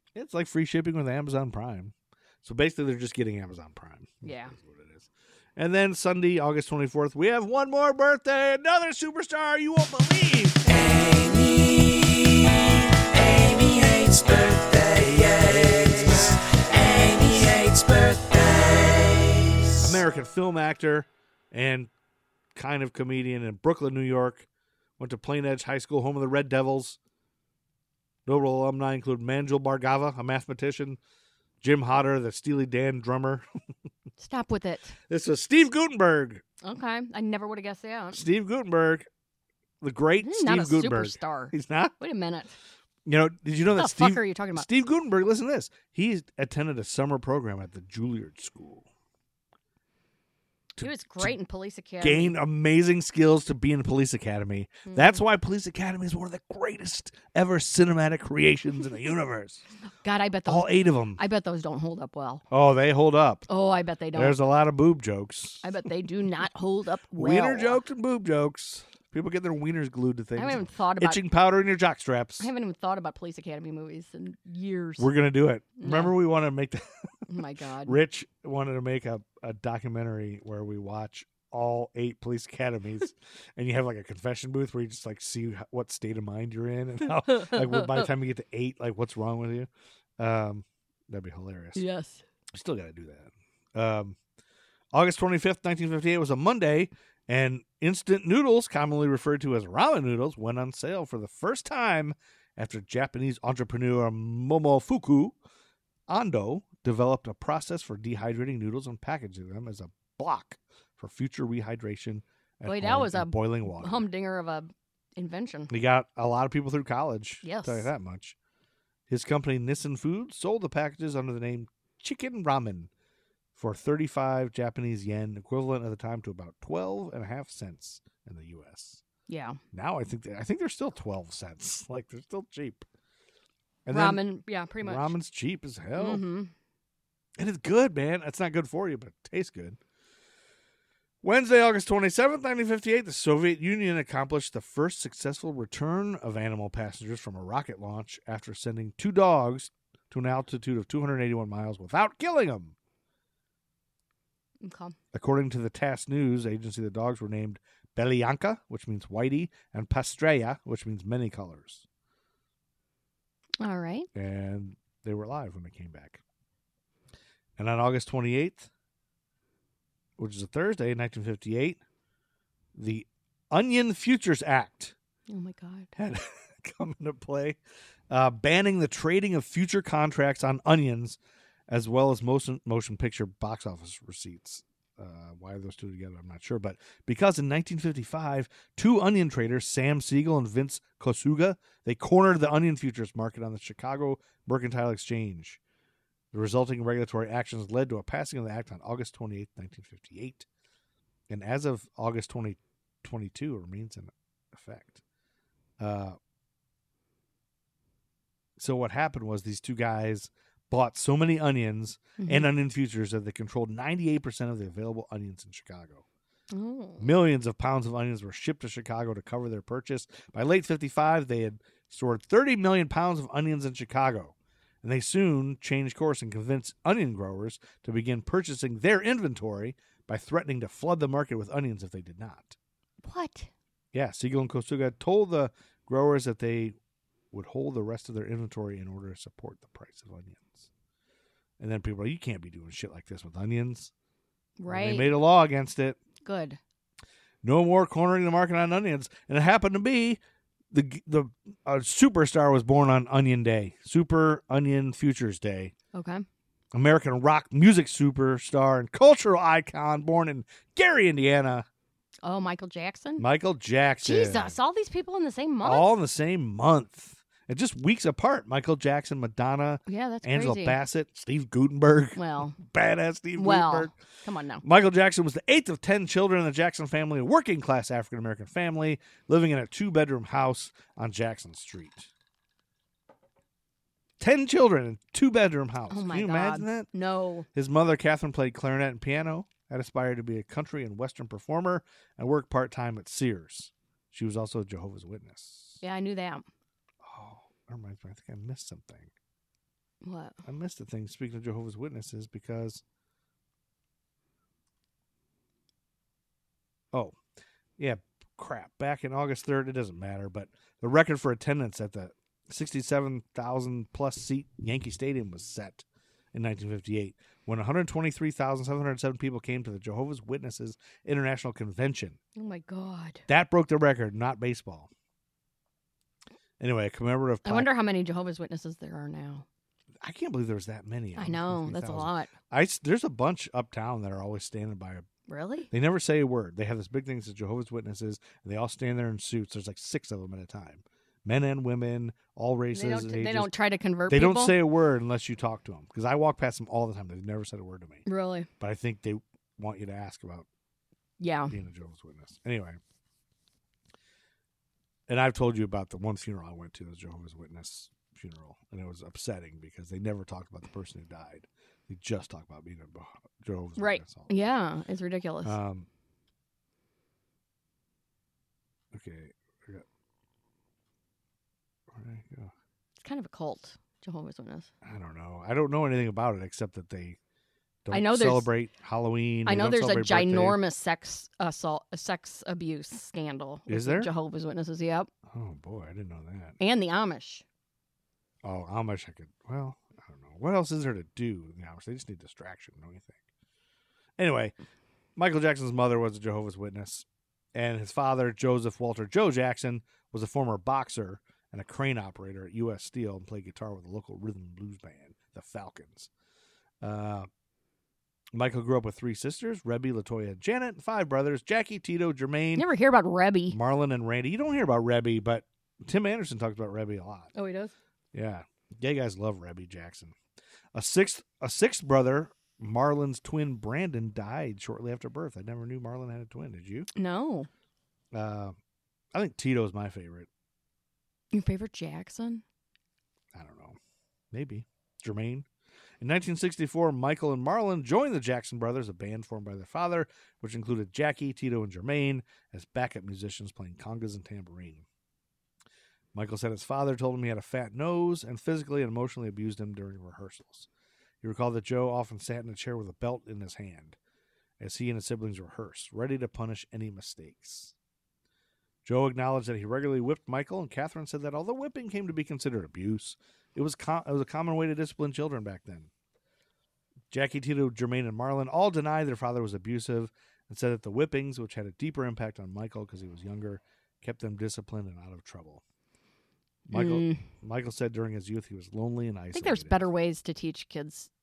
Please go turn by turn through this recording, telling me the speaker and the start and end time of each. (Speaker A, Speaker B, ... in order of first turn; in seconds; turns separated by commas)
Speaker A: 0.1-10.7, Speaker B: 4.2-4.5, Speaker C: 10.7-12.3, Speaker C: 13.0-19.7, Speaker A: 19.8-21.9, Speaker A: 22.5-24.5, Speaker A: 25.0-27.0, Speaker A: 28.2-31.0, Speaker A: 31.6-33.5, Speaker B: 34.2-34.9, Speaker A: 35.1-36.4, Speaker B: 36.6-38.2, Speaker A: 38.1-39.1, Speaker A: 39.8-41.9, Speaker B: 40.2-42.6, Speaker A: 43.0-48.9, Speaker B: 43.8-44.7, Speaker A: 50.8-51.3, Speaker B: 50.8-52.4, Speaker A: 52.0-59.6, Speaker B: 54.9-55.2, Speaker B: 60.0-62.4, Speaker A: 60.5-61.2, Speaker A: 62.5-63.5, Speaker B: 63.5-64.4, Speaker A: 64.1-65.6, Speaker B: 65.6-67.8, Speaker A: 67.1-72.5, Speaker B: 70.3-71.2, Speaker B: 72.4-75.1, Speaker A: 75.0-76.8, Speaker B: 75.8-76.2, Speaker B: 77.3-78.0, Speaker A: 77.4-91.8, Speaker B: 87.3-88.1, Speaker B: 91.8-92.2, Speaker A: 92.5-94.2, Speaker A: 94.9-105.4, Speaker A: 106.1-114.1, Speaker B: 112.6-115.7, Speaker A: 115.7-118.4, Speaker B: 117.4-117.9, Speaker A: 119.1-122.9, Speaker A: 123.5-129.0, Speaker B: 129.3-129.6, Speaker A: 129.7-132.8, Speaker A: 133.9-134.2, Speaker B: 133.9-135.2, Speaker A: 134.8-136.2, Speaker B: 135.9-136.5, Speaker A: 137.4-139.8, Speaker A: 141.2-152.7, Speaker B: 154.6-154.9, Speaker A: 155.1-161.8, Speaker B: 163.6-164.1, Speaker A: 164.1-166.2, Speaker A: 167.6-168.7, Speaker A: 170.2-171.8, Speaker A: 172.7-174.9, Speaker B: 175.3-175.9, Speaker A: 175.9-177.6, Speaker A: 178.1-181.2, Speaker A: 181.7-195.6, Speaker A: 196.3-200.5, Speaker A: 201.3-205.0, Speaker A: 205.8-206.2, Speaker A: 208.6-216.0, Speaker B: 212.2-212.5, Speaker B: 216.5-217.1, Speaker A: 217.0-232.6, Speaker B: 233.0-233.5, Speaker A: 233.9-236.7, Speaker A: 237.3-240.7, Speaker A: 241.6-243.9, Speaker B: 244.6-245.1, Speaker A: 244.7-246.0, Speaker B: 246.2-246.6, Speaker A: 247.4-250.2, Speaker A: 250.7-255.7, Speaker B: 255.9-256.2, Speaker A: 256.7-261.7, Speaker B: 262.2-263.2, Speaker A: 263.2-264.5, Speaker B: 264.0-266.0, Speaker A: 265.6-273.9, Speaker B: 269.9-270.8, Speaker B: 272.1-272.6, Speaker B: 273.4-274.6, Speaker A: 274.6-282.1, Speaker A: 284.2-286.9, Speaker B: 285.9-287.5, Speaker A: 287.5-295.8, Speaker B: 295.8-296.4, Speaker A: 297.0-299.1, Speaker B: 300.0-300.4, Speaker A: 300.4-302.8, Speaker A: 307.8-322.2, Speaker B: 322.4-323.2, Speaker A: 323.3-324.9, Speaker A: 326.6-327.7, Speaker B: 327.4-329.4, Speaker A: 330.0-335.1, Speaker B: 331.1-332.3, Speaker B: 335.3-335.7, Speaker A: 335.7-343.5, Speaker B: 342.7-344.6, Speaker A: 344.1-348.0, Speaker B: 348.1-348.5, Speaker A: 348.6-350.5, Speaker B: 351.2-351.5, Speaker A: 351.5-352.8, Speaker A: 355.1-364.4, Speaker B: 363.8-365.6, Speaker A: 365.4-365.9, Speaker A: 368.9-369.9, Speaker A: 371.9-372.5, Speaker B: 373.0-374.7, Speaker A: 374.8-377.2, Speaker A: 377.8-380.6, Speaker B: 377.9-378.5, Speaker B: 379.4-385.1, Speaker A: 383.7-384.1, Speaker A: 385.3-386.6, Speaker B: 386.6-387.4, Speaker A: 388.4-393.2, Speaker A: 394.2-394.5, Speaker A: 395.1-406.1, Speaker A: 406.8-407.3, Speaker A: 408.3-412.7, Speaker B: 412.6-413.6, Speaker A: 413.5-417.3, Speaker B: 417.3-417.7, Speaker A: 418.1-420.1, Speaker A: 420.7-426.9, Speaker B: 426.9-427.5, Speaker A: 428.1-428.6, Speaker A: 429.1-430.3, Speaker B: 431.3-432.4, Speaker A: 433.3-433.8, Speaker A: 434.3-435.4, Speaker A: 436.0-444.9, Speaker A: 446.1-450.7, Speaker A: 451.2-454.0, Speaker A: 454.6-457.7, Speaker A: 458.8-465.9, Speaker A: 467.1-475.6, Speaker B: 476.7-477.3, Speaker A: 476.7-479.9, Speaker B: 479.3-481.1